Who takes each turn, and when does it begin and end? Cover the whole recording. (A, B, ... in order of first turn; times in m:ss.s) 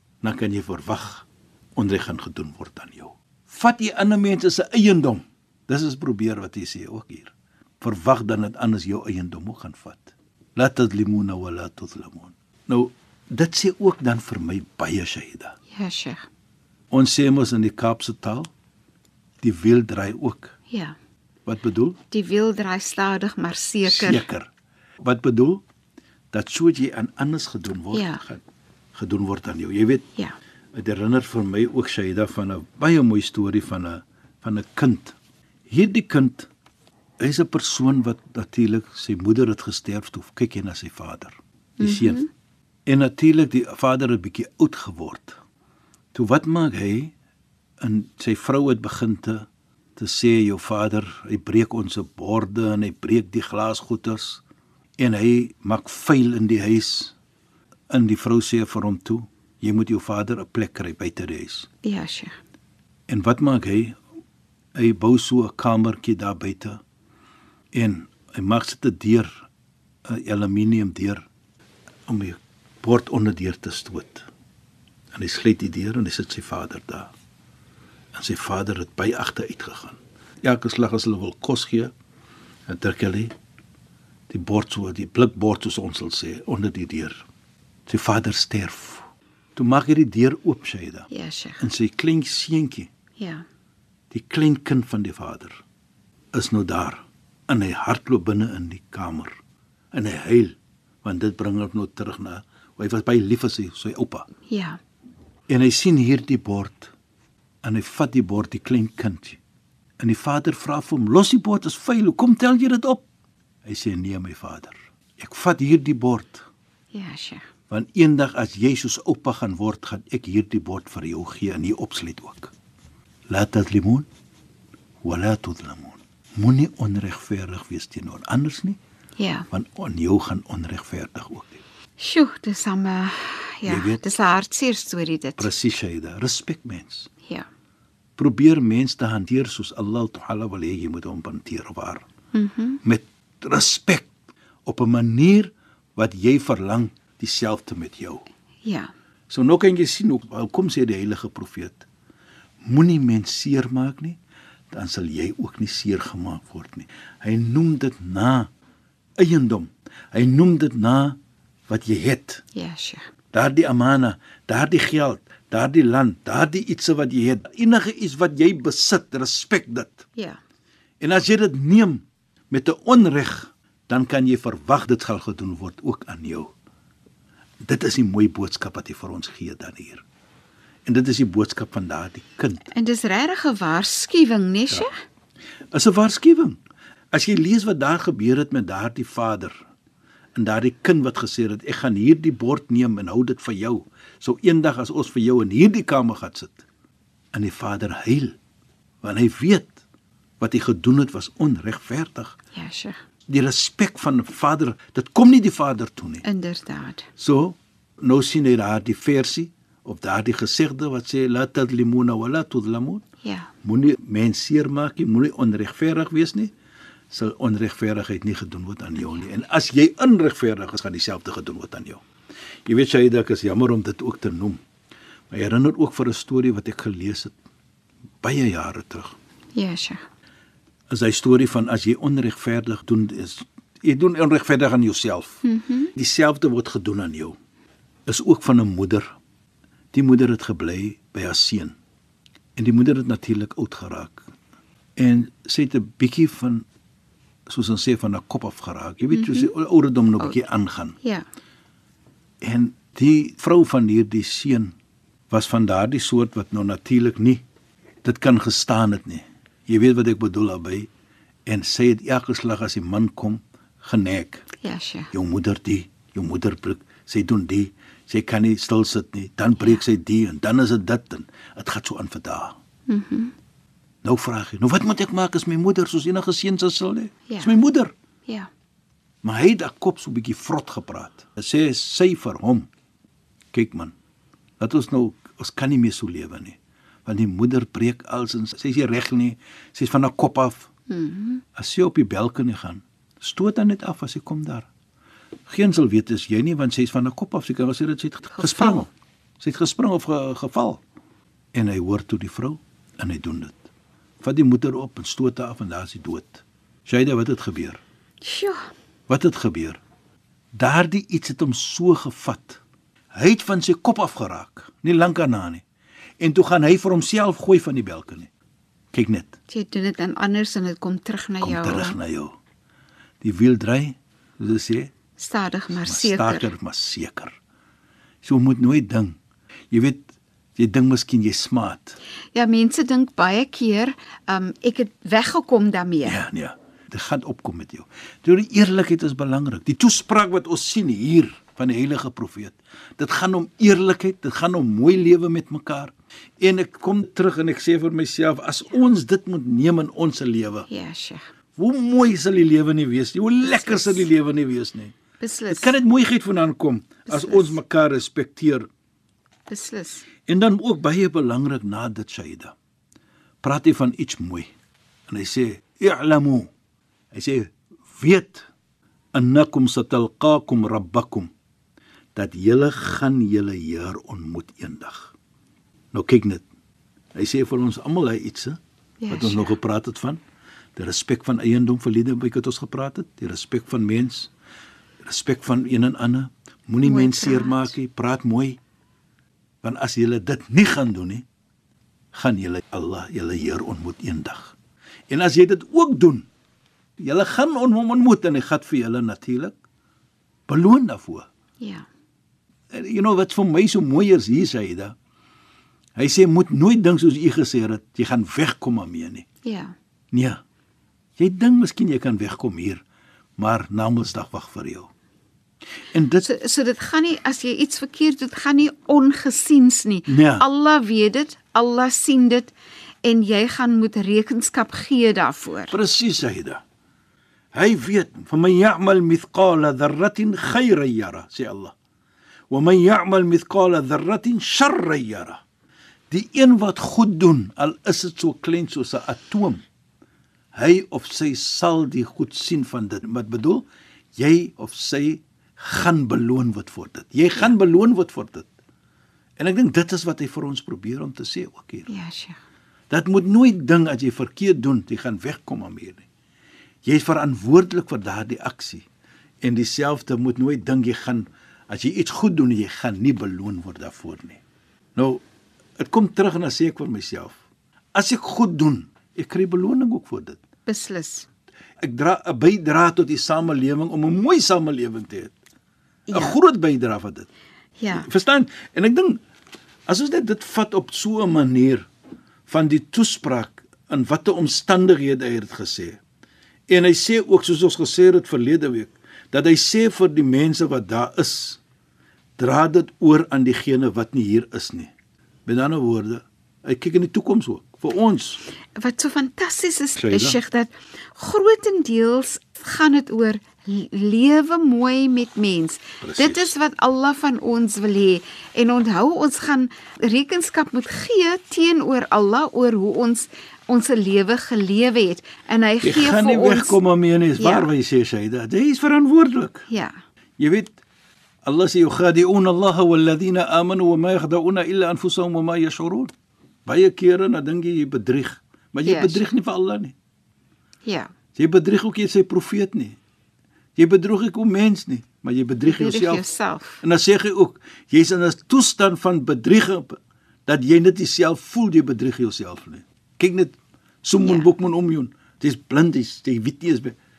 0:00.2-0:15.6 A
0:15.7-0:16.3 B
0:16.9-0:18.5 A
0:19.4-0:20.6 A
0:20.7-0:21.0 B
0:21.5-0:22.0 A
0:22.1-0:24.3 B
0:23.9-0:24.5 A
0:25.0-0:25.6 A
0:26.3-0:28.4 A
0:27.9-0:28.2 B
0:29.0-0:30.0 A
0:30.7-0:35.2 A
0:35.7-0:36.5 A
0:37.2-0:42.2 A
0:41.8-0:42.3 B
0:42.9-0:45.4 A
0:46.1-0:47.1 A
0:47.8-0:49.5 A
0:50.0-0:54.4 A
0:55.0-0:57.2 A
0:57.9-1:01.7 A
1:01.8-1:02.3 B
1:03.1-1:04.0 A
1:04.8-1:06.8 A
1:07.7-1:09.4 A
1:10.1-1:11.3 A
1:12.1-1:14.3 A
1:15.1-1:17.1 A
1:18.1-1:21.9 A
1:22.7-1:23.3 A
1:24.3-1:27.2 A
1:27.9-1:31.1 A
1:31.1-1:31.6 B
1:31.6-1:32.9 A
1:33.2-1:33.4 B
1:34.1-1:35.6 A
1:36.3-1:39.4 A
1:39.9-1:44.3 A
1:44.5-1:44.8 B
1:45.5-1:46.9 A
1:47.6-1:49.4 A
1:50.0-1:53.0 A
1:53.6-1:56.5 A
1:56.9-1:57.4 B
1:57.7-2:02.5 A
2:03.3-2:04.1 A
2:05.0-2:08.8 A
2:09.2-2:09.5 B
2:09.5-2:11.6 A
2:12.0-2:15.5 B
2:13.7-2:14.0 A
2:15.4-2:17.1 A
2:18.2-2:22.0 A
2:22.3-2:22.8 B
2:22.8-2:24.1 A
2:24.7-2:28.2 A
2:28.6-2:28.9 B
2:29.3-2:31.9 A
2:32.6-2:34.2 A
2:34.7-2:38.5 A
2:39.2-2:42.4 A
2:42.5-2:43.1 B
2:43.3-2:50.1 A
2:51.0-2:56.5 A
2:57.6-3:00.0 A
3:00.9-3:02.7 A
3:02.7-3:05.0 B
3:05.7-3:06.6 A
3:07.1-3:09.5 A
3:10.4-3:16.6 A
3:17.3-3:18.4 A
3:19.0-3:19.8 A
3:20.4-3:22.4 A
3:22.6-3:23.0 B
3:23.3-3:26.2 A
3:26.2-3:27.1 B
3:27.2-3:33.0 A
3:33.2-3:33.5 B
3:33.6-3:36.5 A
3:37.1-3:42.0 A
3:42.7-3:44.6 A
3:45.3-3:47.4 A
3:48.2-3:49.2 A
3:49.6-3:50.0 B
3:50.9-3:55.4 A
3:55.4-3:55.9 B
3:56.0-3:57.4 A
3:58.1-3:59.2 A
3:59.9-4:01.8 A
4:02.6-4:04.2 A
4:05.0-4:06.6 A
4:07.5-4:11.0 A
4:09.1-4:09.5 B
4:12.4-4:14.7 A
4:15.3-4:17.4 A
4:18.0-4:20.9 A
4:21.5-4:24.4 A
4:24.6-4:25.1 B
4:25.1-4:32.6 A
4:32.9-4:33.3 B
4:34.0-4:37.9 A
4:37.3-4:37.6 B
4:39.2-4:42.7 A
4:43.5-4:43.9 A
4:44.6-4:50.7 A
4:50.9-4:51.4 B
4:51.6-4:54.7 A
4:55.5-4:58.9 A
4:58.3-4:58.9 B
4:59.4-5:00.8 A
5:01.5-5:03.7 A
5:04.2-5:07.8 A
5:08.2-5:08.7 B
5:09.1-5:09.8 A
5:10.5-5:12.6 A
5:13.1-5:15.6 A
5:16.2-5:18.3 A
5:18.9-5:19.4 A
5:19.5-5:22.0 B
5:21.4-5:22.4 A
5:23.2-5:24.9 A
5:25.2-5:26.5 B
5:25.8-5:27.4 A
5:28.2-5:29.2 A
5:29.7-5:32.0 A
5:32.3-5:36.2 B
5:36.0-5:50.7 A
5:50.7-5:51.2 B
5:51.6-5:54.9 A
5:53.4-5:54.1 B
5:55.2-5:55.8 B
5:55.5-5:58.7 A
5:57.1-5:57.6 B
5:59.5-6:00.1 B
6:00.3-6:02.5 A
6:03.4-6:04.5 A
6:05.1-6:06.5 A
6:07.1-6:08.5 A
6:09.1-6:11.3 A
6:12.2-6:15.2 A
6:15.9-6:16.4 A
6:17.2-6:18.6 A
6:19.0-6:19.6 B
6:19.1-6:20.2 A
6:20.8-6:24.3 A
6:25.0-6:28.6 A
6:26.8-6:27.7 B
6:29.6-6:31.2 A
6:32.1-6:34.6 A
6:35.1-6:36.3 A
6:37.0-6:39.5 A
6:40.5-6:41.3 A
6:41.6-6:41.9 B
6:42.7-6:45.0 A
6:46.0-6:49.2 A
6:49.4-6:49.7 B
6:50.1-6:50.4 A
6:51.2-6:52.8 A
6:53.4-6:54.9 A
6:55.9-6:56.3 A
6:56.2-7:02.5 B
7:00.1-7:00.5 A
7:03.0-7:05.8 B
7:05.7-7:06.6 A
7:07.5-7:11.7 A
7:12.5-7:15.4 A
7:16.1-7:19.6 A
7:20.5-7:28.5 A
7:29.4-7:31.9 A
7:31.9-7:32.4 B
7:32.9-7:36.1 A
7:36.8-7:38.8 A
7:39.4-7:44.4 A
7:45.0-7:45.2 A
7:45.8-7:47.4 A
7:48.0-7:50.4 A
7:50.7-7:51.3 B
7:51.8-7:55.3 A
7:56.1-7:56.4 B
7:56.1-7:57.3 A
7:57.8-7:58.1 B
7:57.9-7:59.2 A
7:59.9-8:01.9 A
8:02.5-8:06.0 A
8:06.7-8:11.6 A
8:12.4-8:14.9 A
8:15.5-8:18.4 A
8:18.8-8:36.8 B
8:20.0-8:20.4 A
8:26.0-8:26.5 A
8:35.8-8:39.7 A
8:37.4-8:37.7 B
8:39.7-8:39.9 B
8:40.4-8:40.8 A
8:41.4-8:46.1 A
8:46.7-8:49.9 A
8:48.8-8:49.3 B
8:50.9-8:51.1 B
8:51.4-8:53.0 A
8:53.8-8:56.2 A
8:55.6-8:56.8 B
8:56.8-9:07.0 A
9:04.2-9:04.5 B